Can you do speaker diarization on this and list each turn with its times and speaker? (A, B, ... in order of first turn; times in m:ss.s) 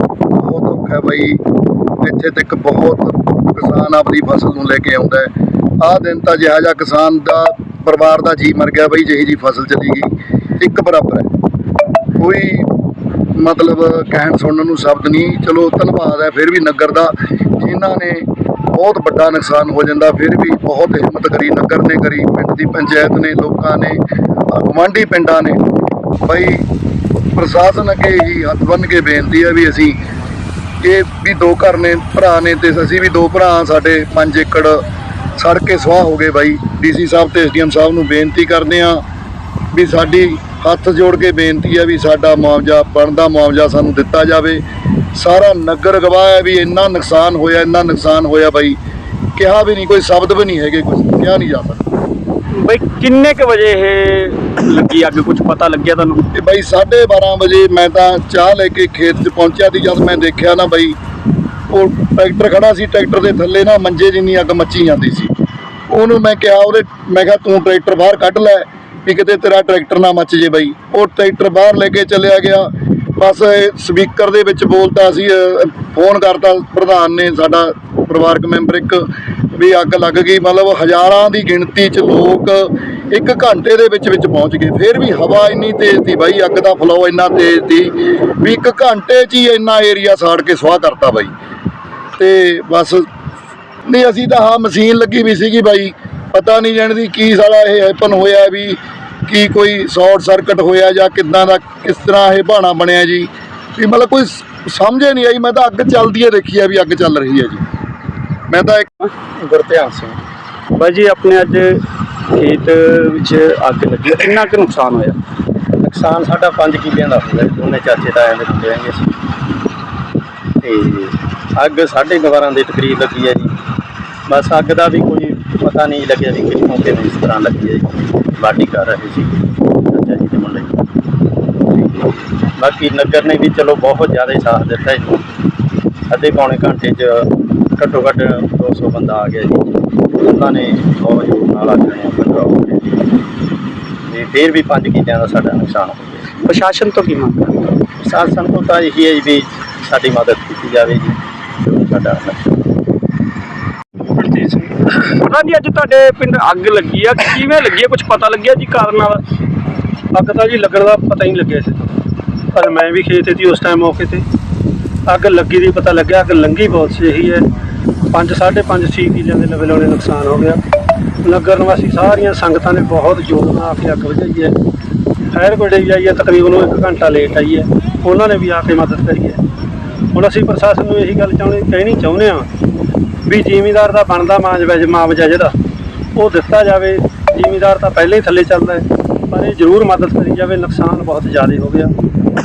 0:00.4-0:01.4 A
0:02.0-0:11.3 A
0:12.2-0:12.7 A
0:13.3-0:25.6 A
0:26.2-0:26.7 A
0:27.3-0:30.0 A
0:30.8-0:34.8 A
0:35.4-0:39.0 A
0:39.7-0:44.6 A
0:45.2-0:48.8 A
0:49.4-0:51.8 A
0:52.6-0:56.3 B
0:56.3-1:01.0 A
1:01.7-1:05.3 A
1:05.9-1:31.3 A
1:32.2-1:33.1 A
1:33.9-1:47.6 A
1:48.5-1:49.0 A
1:49.4-1:50.2 C
1:50.8-1:51.8 B
1:52.4-1:55.2 B
1:55.8-1:59.1 C
2:00.6-2:03.5 C
2:04.3-2:10.8 C
2:12.5-2:15.2 C
2:16.1-2:23.1 C
2:24.1-2:26.3 C
2:26.4-2:27.7 B
2:28.0-2:32.6 C
2:34.2-2:34.7 D
2:35.0-2:39.2 B
2:40.1-2:41.8 D
2:42.5-2:44.2 D
2:45.1-2:47.4 D
2:48.1-2:50.6 D
2:51.2-2:54.5 D
2:55.3-2:59.4 D
3:00.1-3:02.5 D
3:03.2-3:05.5 D
3:06.1-3:11.9 D